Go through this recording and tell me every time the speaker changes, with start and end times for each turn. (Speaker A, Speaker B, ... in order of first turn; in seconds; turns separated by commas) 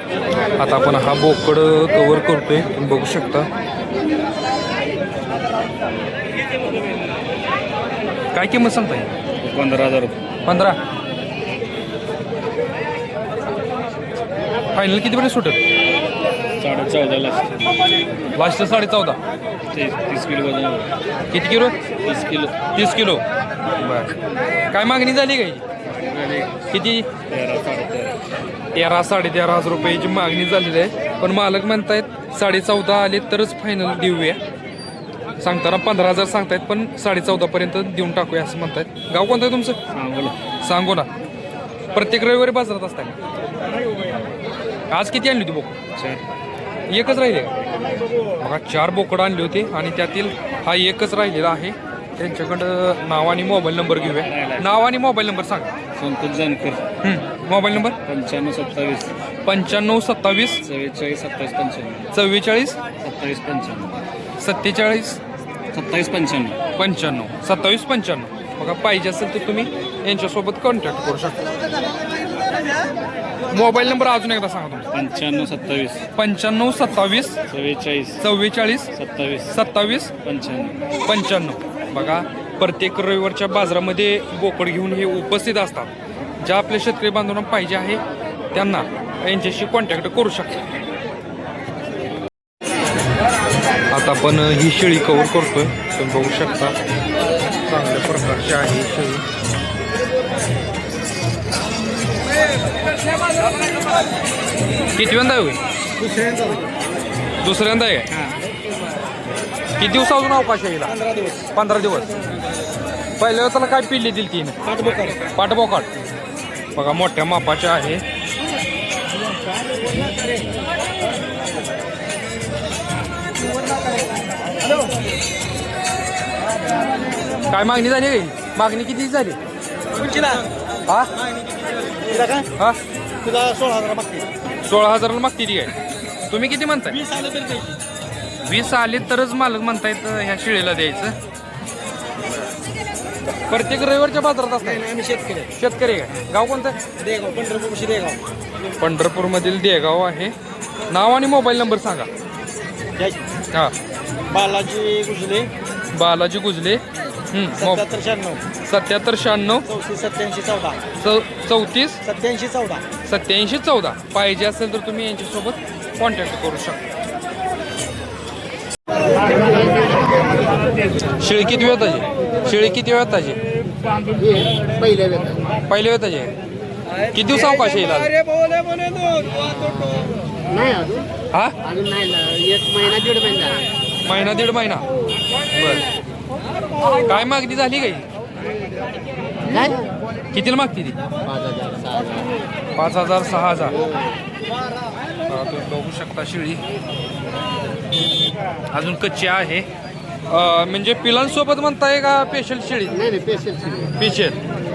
Speaker A: 0.6-3.5, Speaker A: 8.3-9.1, Speaker B: 9.4-10.2, Speaker A: 10.4-10.8, Speaker A: 14.7-15.6, Speaker B: 16.6-17.7, Speaker A: 18.3-19.2, Speaker B: 19.7-20.9, Speaker A: 21.3-21.8, Speaker B: 22.0-22.7, Speaker A: 22.7-23.2, Speaker A: 23.8-24.2, Speaker A: 24.7-25.6, Speaker B: 25.9-26.6, Speaker A: 26.7-27.1, Speaker B: 27.3-28.2, Speaker A: 28.7-34.4, Speaker A: 35.4-39.8, Speaker B: 39.9-40.4, Speaker A: 40.6-41.1, Speaker A: 41.9-43.1, Speaker A: 44.9-45.8, Speaker B: 46.0-46.2, Speaker A: 46.9-47.6, Speaker A: 48.4-55.7, Speaker B: 54.0-54.8, Speaker B: 56.0-56.8, Speaker A: 57.0-58.0, Speaker B: 58.0-59.1, Speaker A: 59.5-60.6, Speaker B: 60.6-62.1, Speaker A: 62.1-62.8, Speaker B: 63.0-64.0, Speaker A: 64.4-65.2, Speaker B: 65.7-66.6, Speaker A: 66.8-71.5, Speaker A: 73.5-74.9, Speaker B: 74.9-76.0, Speaker A: 76.2-77.4, Speaker B: 77.5-78.2, Speaker A: 78.2-78.9, Speaker B: 78.9-79.5, Speaker A: 79.5-80.1, Speaker B: 80.2-80.9, Speaker A: 81.0-88.0, Speaker A: 88.5-90.6, Speaker A: 93.9-96.8, Speaker A: 97.7-99.3, Speaker A: 105.0-105.6, Speaker C: 106.0-106.6, Speaker A: 107.4-108.2, Speaker A: 109.8-111.0, Speaker C: 110.9-111.4, Speaker A: 111.5-112.1, Speaker A: 113.2-114.7, Speaker C: 114.7-115.2, Speaker A: 115.2-115.9, Speaker A: 116.8-118.0, Speaker A: 127.5-129.4, Speaker C: 130.0-130.5, Speaker C: 131.4-132.5, Speaker C: 133.2-134.3, Speaker A: 134.6-135.8, Speaker A: 136.3-137.0, Speaker C: 136.9-137.8, Speaker A: 138.4-141.2, Speaker A: 143.5-144.9, Speaker C: 144.6-145.5, Speaker A: 145.6-146.8, Speaker C: 147.0-148.2, Speaker A: 148.8-150.3, Speaker A: 150.9-152.1, Speaker C: 154.3-155.5, Speaker A: 155.9-157.9, Speaker C: 157.6-158.4, Speaker A: 158.6-159.7, Speaker C: 159.7-160.8, Speaker A: 160.9-162.0, Speaker C: 162.1-162.9, Speaker A: 163.0-166.8, Speaker A: 171.1-173.4, Speaker D: 174.1-175.6, Speaker A: 175.7-176.3, Speaker A: 177.1-178.1, Speaker D: 179.3-181.1, Speaker D: 181.6-183.7, Speaker A: 184.0-184.8, Speaker A: 185.5-185.8, Speaker A: 187.1-188.1, Speaker D: 189.5-189.8, Speaker A: 190.3-191.0, Speaker D: 191.2-192.3, Speaker A: 192.8-193.8, Speaker D: 193.7-194.2, Speaker A: 195.3-196.6, Speaker A: 198.7-199.7, Speaker A: 200.3-203.0, Speaker D: 202.9-203.9, Speaker A: 204.0-204.4